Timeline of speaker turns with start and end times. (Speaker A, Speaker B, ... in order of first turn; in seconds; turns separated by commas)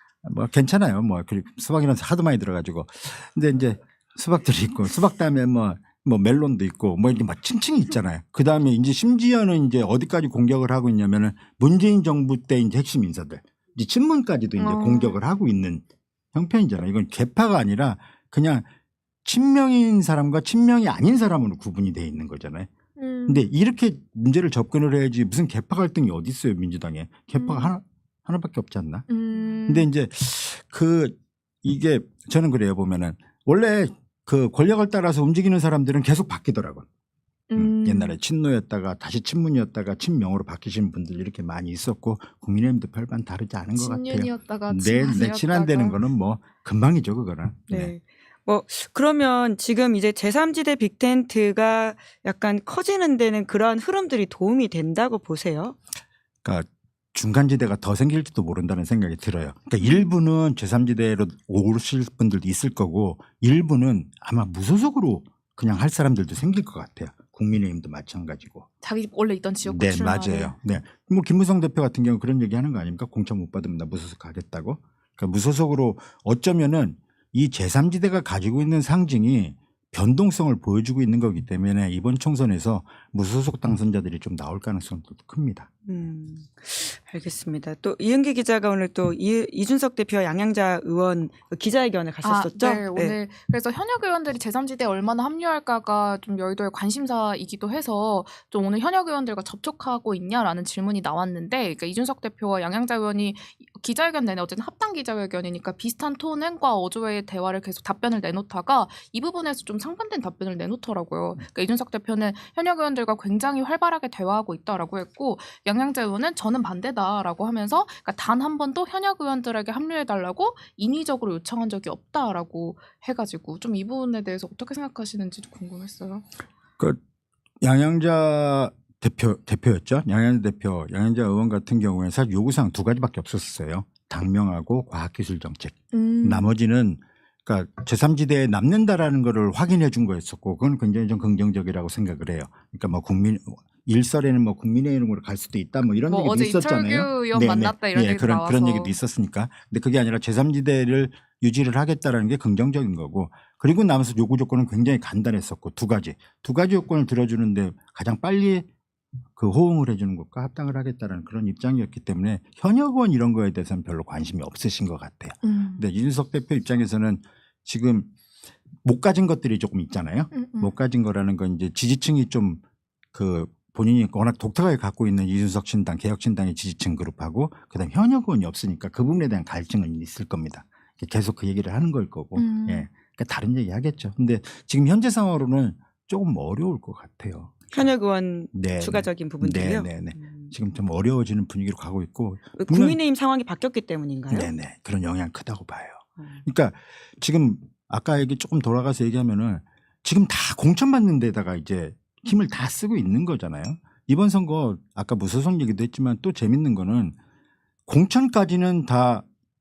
Speaker A: 0.2-18.7, Speaker B: 14.6-15.2, Speaker A: 19.2-22.7, Speaker B: 23.0-23.4, Speaker A: 23.3-36.9, Speaker B: 27.3-27.7, Speaker B: 29.1-29.9, Speaker B: 37.5-38.2, Speaker A: 37.5-47.9, Speaker B: 43.7-46.0, Speaker C: 47.7-55.7, Speaker A: 56.4-68.7, Speaker B: 59.8-60.1, Speaker B: 68.8-70.5, Speaker A: 69.6-85.7, Speaker C: 85.8-93.2, Speaker B: 92.2-126.2, Speaker A: 127.6-158.7, Speaker B: 135.9-136.5, Speaker B: 146.0-148.9, Speaker A: 159.3-168.1, Speaker B: 165.4-165.9, Speaker A: 168.8-172.6, Speaker B: 170.3-170.7, Speaker A: 173.1-187.9, Speaker B: 182.3-182.9, Speaker C: 187.7-190.5, Speaker A: 188.5-193.0, Speaker C: 192.6-194.5, Speaker A: 194.3-207.2, Speaker A: 207.9-209.2